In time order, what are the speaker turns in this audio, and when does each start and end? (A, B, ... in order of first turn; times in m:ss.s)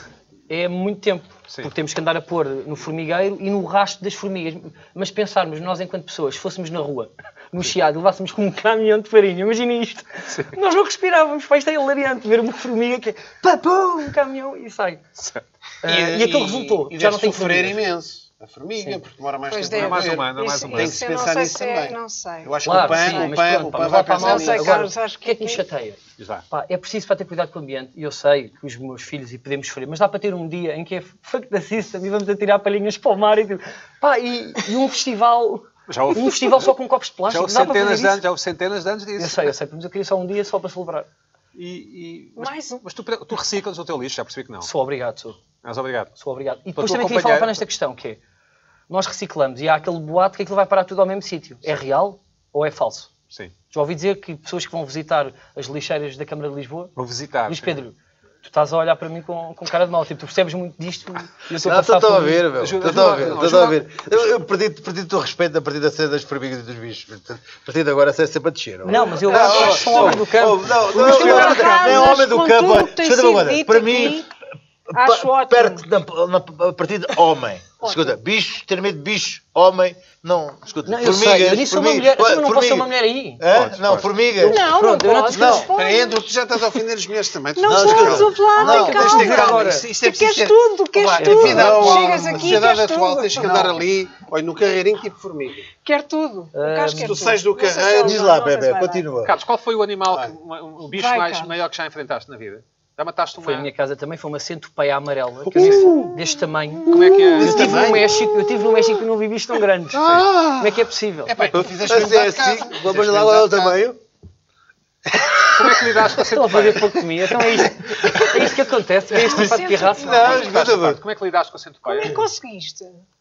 0:00.5-0:15.0 A
0:15.8-0:17.8 A
0:15.8-0:24.8 B
0:19.5-0:23.4 C
0:19.7-0:21.0 D
0:22.6-0:38.2 A
0:24.0-0:25.6 C
0:26.2-0:26.4 D
0:35.9-0:36.7 D
0:37.3-0:39.5 D
0:39.2-0:41.1 A
0:41.5-0:44.7 D
0:42.4-0:42.8 C
0:44.6-0:45.4 A
0:45.6-0:46.1 D
0:46.2-0:48.2 A
0:46.8-0:47.6 D
0:48.9-0:53.1 A
0:53.7-0:56.9 A
0:57.0-0:57.8 D
0:57.5-1:02.4 A
1:01.6-1:14.3 E
1:02.5-1:04.0 D
1:08.8-1:11.7 A
1:09.7-1:10.1 D
1:10.9-1:12.2 D
1:11.0-1:14.3 C
1:14.9-1:15.8 C
1:14.9-1:24.7 E
1:17.8-1:18.1 C
1:20.8-1:23.4 A
1:23.5-1:24.1 D
1:24.4-1:25.7 A
1:24.4-1:26.2 C
1:25.3-1:25.7 E
1:25.7-1:35.7 B
1:27.5-1:33.7 C
1:27.6-1:29.4 E
1:28.5-1:29.8 A
1:31.2-1:31.6 A
1:31.2-1:32.6 E
1:33.4-1:33.7 E
1:35.8-1:39.1 C
1:36.5-1:37.2 A
1:37.0-1:38.3 B
1:38.0-1:39.3 E
1:39.2-1:43.7 D
1:40.9-1:41.5 C
1:43.4-1:51.4 A
1:45.5-1:45.9 D
1:45.5-1:46.2 E
1:46.9-1:47.9 D
1:46.9-1:48.1 E
1:47.4-1:48.1 B
1:49.9-1:50.8 E
1:51.2-1:53.8 B
1:51.5-1:54.0 E
1:55.1-1:56.1 E
1:55.4-1:57.0 D
1:56.2-2:00.5 A
1:57.6-1:58.5 E
1:59.2-2:00.4 C
1:59.3-2:01.0 E
2:00.1-2:02.2 D
2:01.8-2:03.0 C